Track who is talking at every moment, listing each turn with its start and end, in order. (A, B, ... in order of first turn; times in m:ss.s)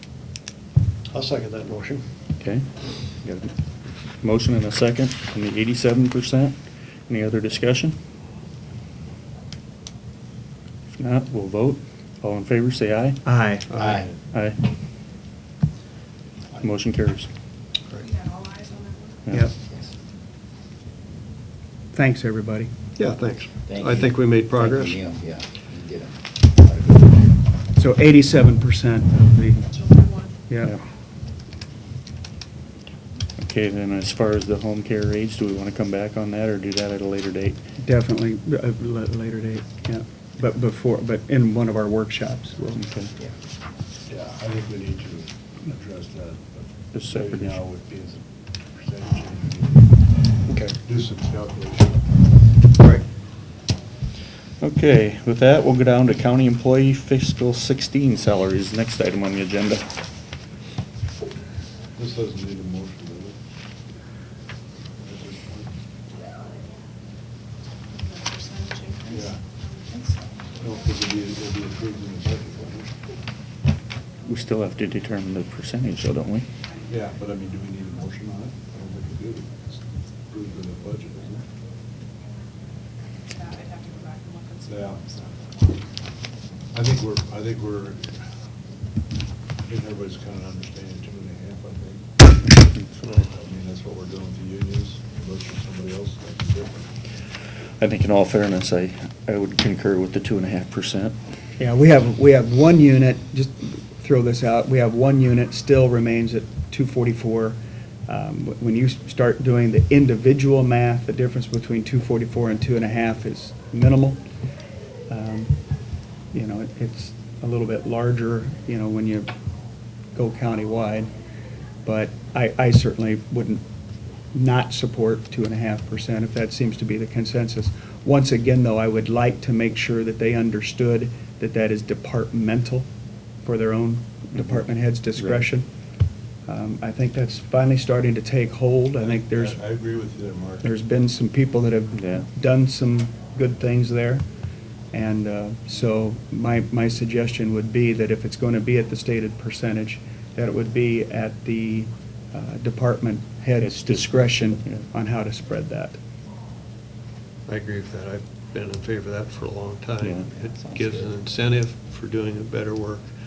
0:01.1-0:02.0 A
0:02.4-0:03.5 B
0:04.2-0:06.6 B
0:07.1-0:08.0 B
0:10.9-0:13.2 B
0:13.2-0:13.7 C
0:13.7-0:14.1 D
0:14.3-0:14.6 B
0:16.6-0:17.3 B
0:18.0-0:19.2 E
0:19.6-0:19.9 D
0:21.9-0:22.7 C
0:23.0-0:25.0 A
0:23.6-0:27.4 D
0:27.8-0:29.8 C
0:29.8-0:30.3 E
0:30.5-0:30.8 C
0:33.4-0:37.6 B
0:37.8-0:42.8 C
0:42.8-0:43.1 B
0:44.1-0:48.2 F
0:46.9-0:47.6 B
0:48.8-0:50.0 F
0:50.5-0:52.0 F
0:54.6-0:59.9 B
1:02.0-1:03.4 F
1:05.0-1:05.7 F
1:08.1-1:09.2 E
1:09.1-1:09.4 F
1:09.9-1:10.2 E
1:10.6-1:12.9 F
1:14.3-1:16.5 B
1:16.9-1:19.8 F
1:20.3-1:21.4 F
1:23.4-1:25.3 E
1:24.7-1:25.2 F
1:26.7-1:28.2 F
1:29.7-1:32.1 F
1:32.5-1:33.3 B
1:33.2-1:36.9 F
1:37.8-1:41.2 B
1:41.6-1:54.2 C
1:55.1-1:55.6 C
1:56.3-1:59.3 C
2:00.2-2:01.1 C
2:01.8-2:03.6 C
2:04.3-2:12.9 C
2:13.4-2:15.7 C
2:14.4-2:14.6 B
2:16.5-2:19.6 C
2:19.0-2:20.7 F
2:20.6-2:24.3 C
2:22.0-2:22.3 B
2:24.9-2:36.0 C
2:33.6-2:34.8 B
2:37.5-2:43.0 A
2:40.0-2:40.3 B
2:40.3-2:41.2 D